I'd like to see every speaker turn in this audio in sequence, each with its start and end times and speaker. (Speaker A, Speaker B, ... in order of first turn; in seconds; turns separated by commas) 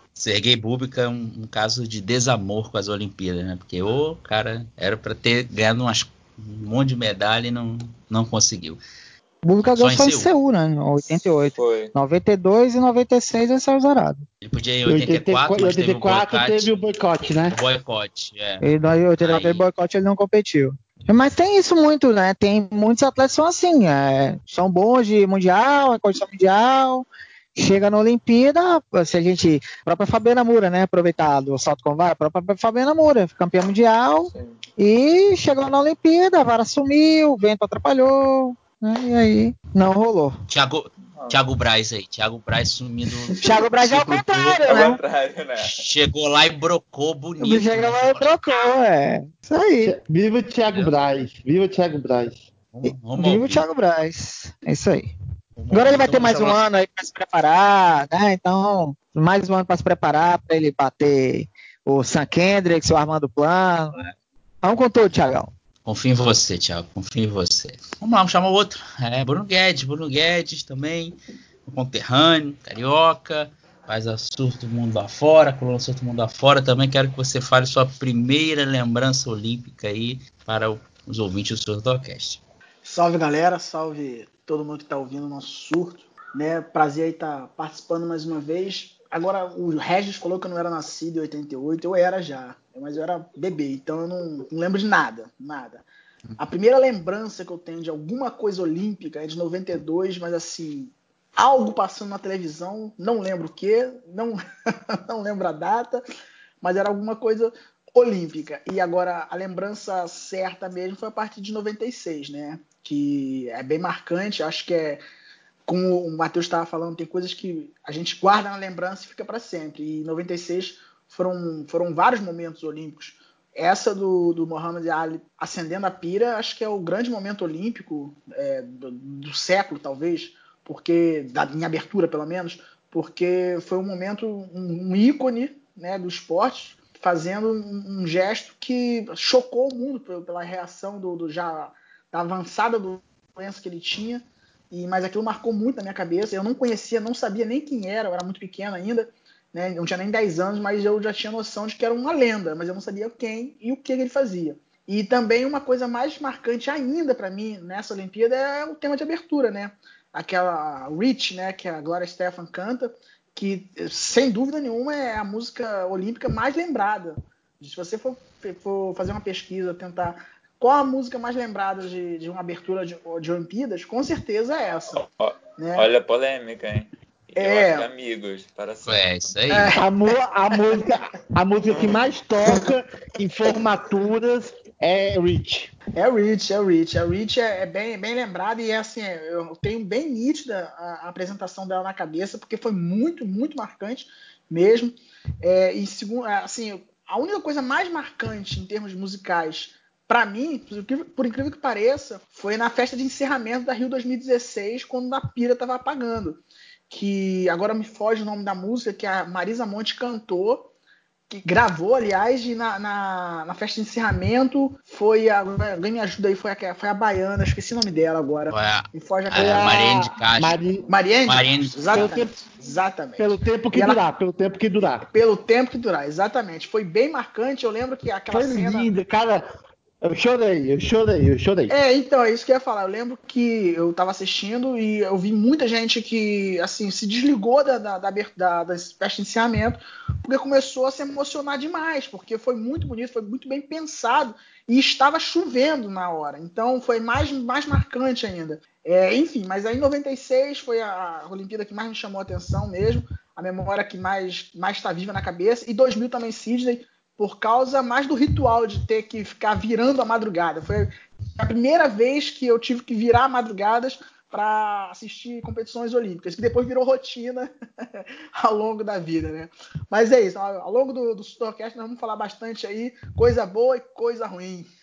Speaker A: 0.2-8.8, Speaker B: 9.4-14.3, Speaker A: 9.8-10.3, Speaker C: 11.0-11.9, Speaker A: 14.4-16.8, Speaker D: 14.9-17.6, Speaker A: 17.5-18.6, Speaker B: 18.6-40.4, Speaker A: 19.2-19.6, Speaker C: 34.3-34.6, Speaker A: 40.5-44.7, Speaker C: 41.1-41.4, Speaker B: 43.4-45.0, Speaker C: 44.6-45.8, Speaker A: 45.6-48.3, Speaker B: 47.4-49.9, Speaker D: 49.9-52.5, Speaker A: 52.7-53.6, Speaker B: 52.8-55.1, Speaker A: 55.6-56.6, Speaker B: 55.7-64.0, Speaker B: 64.6-65.5, Speaker A: 65.9-82.4, Speaker E: 82.8-95.8, Speaker E: 96.4-106.0, Speaker E: 106.6-115.0, Speaker E: 115.7-175.0, Speaker C: 174.9-179.3, Speaker E: 175.6-175.9, Speaker E: 177.4-177.9, Speaker A: 178.8-179.7, Speaker E: 179.5-180.9, Speaker D: 179.7-185.7, Speaker E: 185.9-210.7, Speaker E: 211.3-219.8, Speaker A: 218.5-220.6, Speaker D: 219.3-220.9, Speaker E: 220.9-224.0, Speaker A: 221.3-222.0, Speaker D: 221.9-222.3, Speaker D: 223.2-225.1, Speaker E: 225.1-228.9, Speaker D: 228.3-229.4, Speaker D: 230.0-231.7, Speaker E: 231.7-274.7